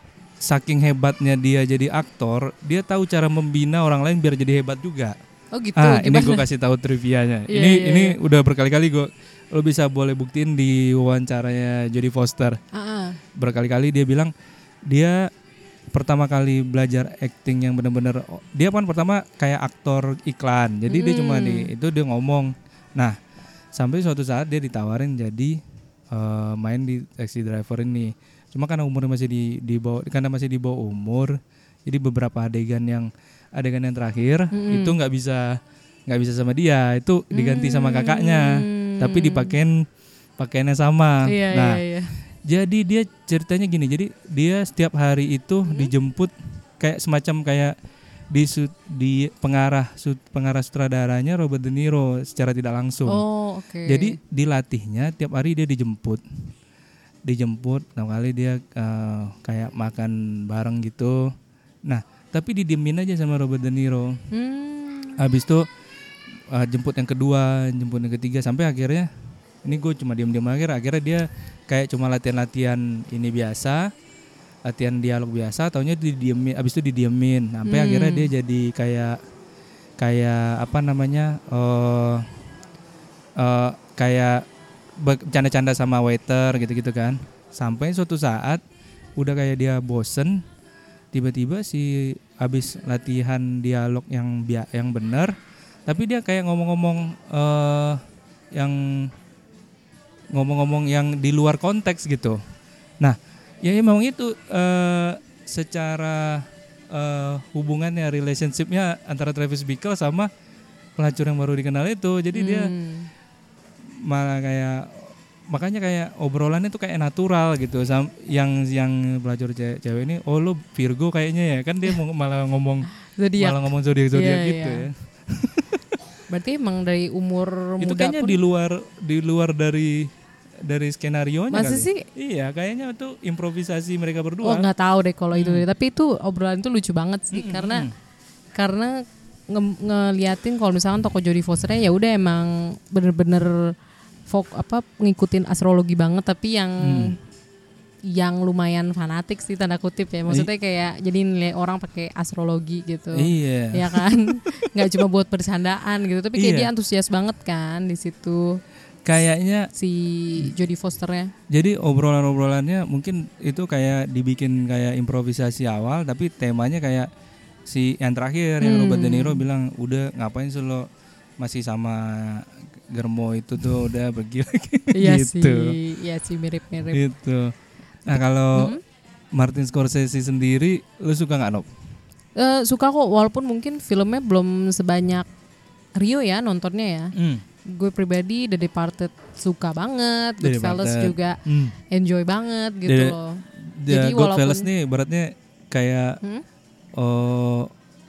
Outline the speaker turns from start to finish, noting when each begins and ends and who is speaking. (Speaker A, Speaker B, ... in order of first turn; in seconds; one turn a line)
Speaker A: 0.4-5.2
Speaker B: 5.5-6.4
Speaker A: 5.8-12.6
Speaker B: 7.5-8.2
Speaker B: 12.7-13.2
Speaker A: 13.4-14.3
Speaker A: 14.9-15.3
Speaker A: 15.9-23.2
Speaker B: 20.9-21.7
Speaker A: 23.7-25.6
Speaker A: 26.1-39.9
Speaker B: 34.5-35.0
Speaker B: 37.3-39.5
Speaker A: 40.4-41.8
Speaker B: 41.2-42.2
Speaker A: 42.4-47.7
Speaker B: 45.7-45.9
Speaker A: 48.3-53.2
Speaker B: 53.1-54.2
Speaker A: 53.9-56.5
Speaker A: 57.2-61.3
Speaker A: 61.9-64.2
Speaker B: 64.3-65.2
Speaker A: 65.2-65.7
Speaker A: 66.5-69.1
Speaker A: 69.7-73.9
Speaker A: 74.7-79.2
Speaker B: 77.7-78.3
Speaker A: 80.0-82.3
Speaker A: 83.4-84.5
Speaker A: 85.0-88.6
Speaker A: 89.2-90.4
Speaker A: 91.1-95.3
Speaker A: 95.9-98.0
Speaker A: 98.5-99.1
Speaker A: 100.3-102.4
Speaker A: 103.0-110.3
Speaker A: 111.0-112.7
Speaker B: 112.3-113.1
Speaker A: 114.0-125.8
Speaker B: 123.2-124.9
Speaker B: 126.3-128.4
Speaker A: 127.8-134.7
Speaker B: 131.5-132.1
Speaker B: 134.4-137.9
Speaker A: 135.3-135.6
Speaker A: 137.3-137.9
Speaker B: 138.6-143.7
Speaker B: 144.3-147.2
Speaker A: 146.8-147.2
Speaker B: 148.1-158.6
Speaker A: 153.2-154.0
Speaker A: 156.4-156.7
Speaker A: 159.1-159.7
Speaker B: 159.7-161.3
Speaker A: 161.5-167.1
Speaker A: 167.7-170.9
Speaker B: 168.6-169.4
Speaker A: 171.4-175.8
Speaker B: 174.9-177.0
Speaker A: 176.9-177.5
Speaker A: 178.1-178.8
Speaker B: 178.6-178.8
Speaker A: 179.3-181.7
Speaker B: 182.4-185.3
Speaker B: 186.0-187.1
Speaker A: 187.2-187.4
Speaker B: 187.7-191.4
Speaker A: 190.4-191.7
Speaker B: 191.9-194.7
Speaker A: 192.9-196.2
Speaker A: 197.0-197.7